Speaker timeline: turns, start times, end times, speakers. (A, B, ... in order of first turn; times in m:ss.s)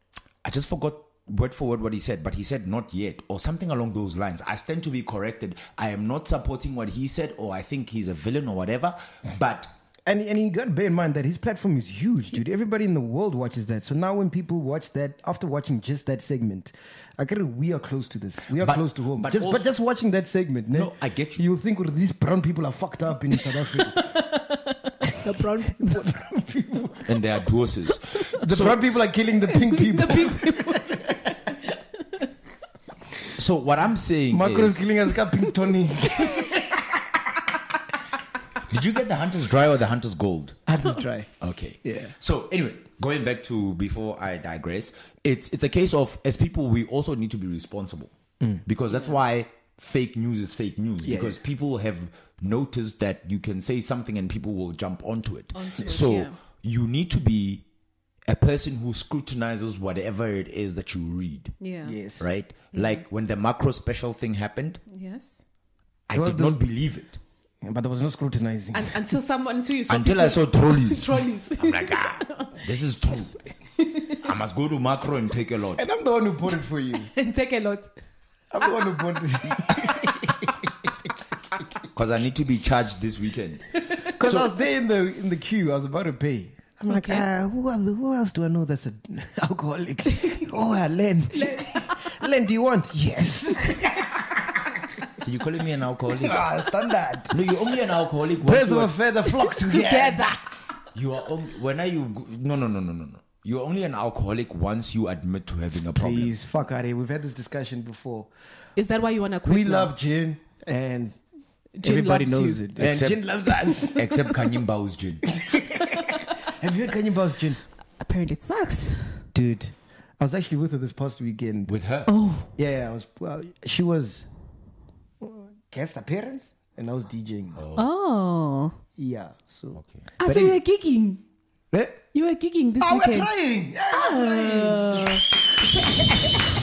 0:00.4-0:09.7 A
0:10.0-0:24.0 B
0:18.6-0:19.7 A
0:20.7-0:21.4 A
0:23.8-0:26.1 C
0:25.8-0:27.1 B
0:27.0-0:28.8 A
0:28.4-0:31.2 B
0:29.5-0:32.2 C
0:33.4-0:34.8 A
0:34.3-0:36.5 B
0:38.7-0:40.6 A
0:40.7-0:41.3 B
0:41.4-0:48.1 A
0:41.8-0:42.1 B
0:48.6-0:57.6 A
0:48.9-0:49.2 C
0:51.0-0:51.4 B
0:55.5-0:56.3 C
0:58.2-1:01.5 A
1:01.6-1:02.0 C
1:01.8-1:02.2 B
1:02.2-1:04.8 A
1:02.7-1:03.0 C
1:04.9-1:05.4 C
1:06.1-1:07.2 A
1:06.1-1:06.6 B
1:07.6-1:09.1 B
1:08.7-1:12.6 C
1:09.9-1:13.4 A
1:13.8-1:14.2 C
1:14.2-1:15.8 A
1:15.8-1:17.1 B
1:17.1-1:17.9 C
1:18.5-1:20.7 B
1:21.9-1:23.6 A
1:24.2-1:33.9 B
1:24.2-1:24.5 A
1:26.9-1:27.2 C
1:31.3-1:32.1 C
1:35.2-1:36.4 A
1:36.2-1:37.4 B
1:37.3-1:38.9 A
1:38.4-1:40.3 B
1:39.4-1:40.5 C
1:40.9-1:46.3 A
1:45.9-1:48.3 B
1:48.8-1:49.9 C
1:49.4-1:51.2 B
1:51.8-1:52.6 C
1:51.8-1:54.0 B
1:52.8-1:53.2 A
1:53.9-1:55.3 A
1:55.4-1:57.6 B
1:55.9-1:56.3 C
1:58.0-1:59.2 C
1:59.3-2:01.7 B
2:01.7-2:02.1 A
2:02.1-2:02.5 C
2:02.6-2:04.2 B
2:05.2-2:07.6 B
2:07.6-2:07.9 A
2:07.7-2:08.8 C
2:09.0-2:10.6 B
2:10.2-2:11.2 C
2:11.7-2:12.0 B
2:12.1-2:13.3 C
2:12.8-2:16.4 B
2:13.9-2:15.2 C